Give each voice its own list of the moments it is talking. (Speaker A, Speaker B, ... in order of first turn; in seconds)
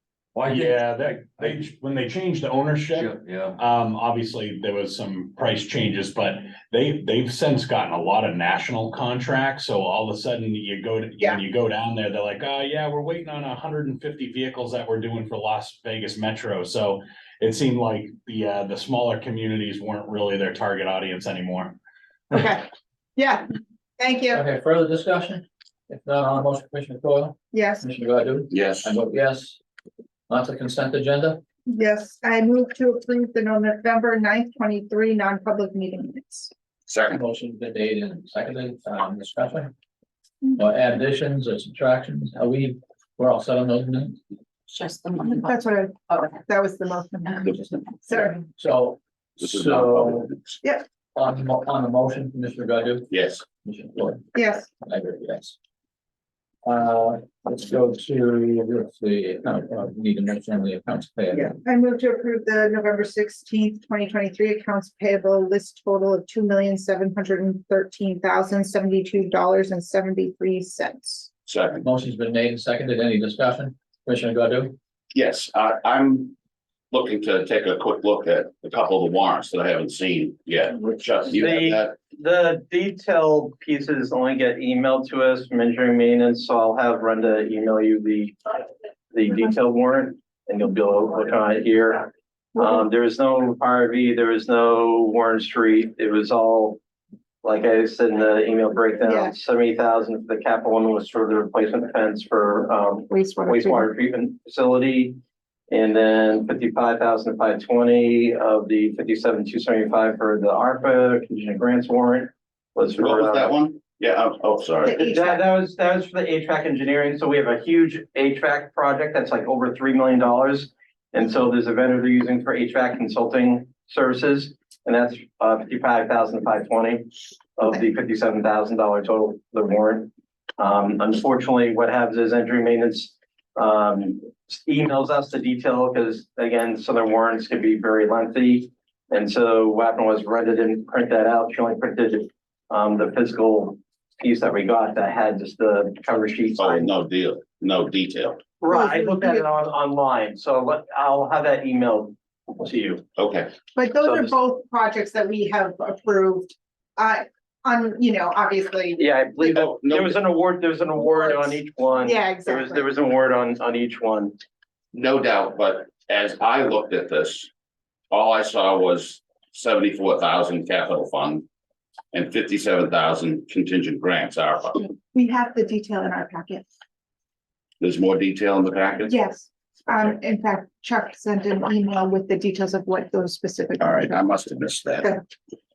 Speaker A: 0.3-1.7, 2.9-3.6
Speaker B: 0.5-21.8
Speaker C: 22.4-23.5, 24.0-24.4, 27.5-27.9, 31.7-36.5, 45.2-48.4, 54.4-54.7, 61.3-71.3, 92.5-92.8, 99.0-99.3, 103.1-103.9, 114.9-115.4, 148.7-149.5, 153.8-159.6, 161.0-162.9, 174.8-176.7, 179.1-184.2
Speaker D: 24.3-29.6, 30.3-31.4, 37.1-39.7, 40.6-44.2, 48.5-50.3, 51.1-53.1, 53.6-54.3, 54.8-55.6, 56.6-61.6, 71.8-74.8
Speaker E: 28.5-29.0, 36.9-37.2, 49.4-50.6, 53.1-53.4, 71.5-71.9, 75.1-76.3, 76.9-82.0, 112.9-115.0, 146.6-148.4, 153.2-153.5, 159.6-160.2, 164.9-167.5, 168.1-171.4, 172.1-174.8, 177.8-179.1, 183.8-185.2
Speaker F: 81.3-88.6, 89.1-96.8, 97.4-105.2, 105.7-113.6, 114.8-146.9, 148.6-153.0, 153.9-154.4, 159.0-164.4